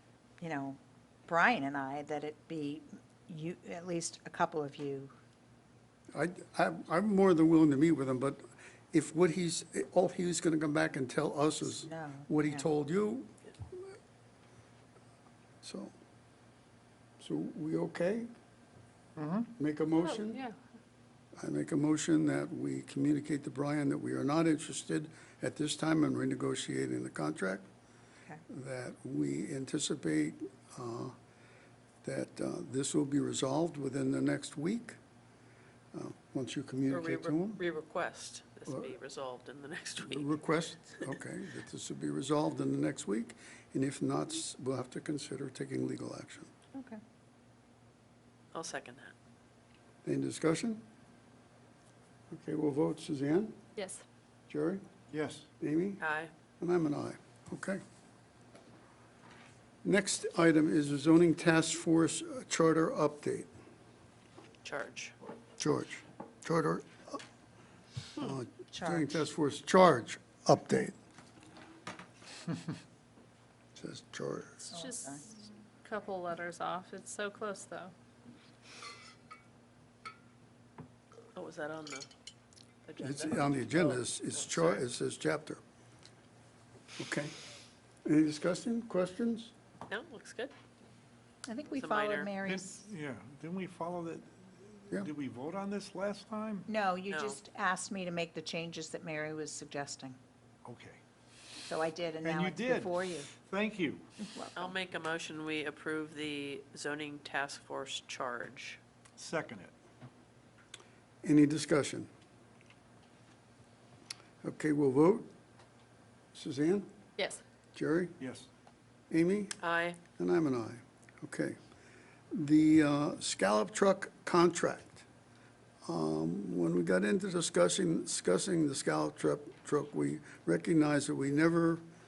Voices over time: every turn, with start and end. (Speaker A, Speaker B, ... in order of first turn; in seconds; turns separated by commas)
Speaker A: 0.4-5.1, Speaker B: 6.1-13.8, Speaker A: 11.6-12.7, Speaker B: 15.6-15.9, Speaker B: 17.2-18.3, Speaker C: 19.2-19.5, Speaker B: 19.6-20.4, Speaker D: 20.0-20.6, Speaker B: 21.4-27.7, Speaker B: 28.5-31.1, Speaker B: 32.0-35.0, Speaker B: 35.9-37.6, Speaker E: 36.9-40.4, Speaker B: 40.0-46.5, Speaker A: 46.7-47.0, Speaker E: 48.5-49.1, Speaker B: 50.0-50.8, Speaker B: 52.3-53.5, Speaker D: 53.8-54.0, Speaker B: 54.5-54.8, Speaker C: 55.1-55.5, Speaker B: 55.6-56.0, Speaker E: 56.0-56.3, Speaker B: 56.6-57.8, Speaker B: 59.8-63.5, Speaker E: 64.6-65.2, Speaker B: 65.6-67.2, Speaker B: 68.2-71.0, Speaker A: 68.7-69.2, Speaker B: 73.8-74.7, Speaker A: 74.7-75.3, Speaker D: 74.7-75.2, Speaker D: 75.8-77.9, Speaker E: 81.3-82.1, Speaker E: 82.9-84.8, Speaker B: 83.0-85.6, Speaker B: 87.0-87.3, Speaker B: 88.0-89.5, Speaker E: 89.9-90.5, Speaker A: 91.5-92.8, Speaker E: 91.7-92.3, Speaker C: 92.4-96.7, Speaker A: 96.7-100.2, Speaker E: 97.1-97.4, Speaker C: 100.7-101.0, Speaker A: 101.7-103.3, Speaker C: 102.2-104.0, Speaker A: 104.2-104.7, Speaker E: 104.6-108.8, Speaker C: 109.2-109.7, Speaker B: 111.2-112.1, Speaker B: 114.4-115.3, Speaker B: 116.3-116.9, Speaker D: 117.2-117.4, Speaker B: 117.8-118.2, Speaker C: 118.2-118.5, Speaker B: 119.1-119.6, Speaker E: 119.6-120.0, Speaker B: 120.2-121.6, Speaker B: 122.3-125.0, Speaker B: 125.9-131.8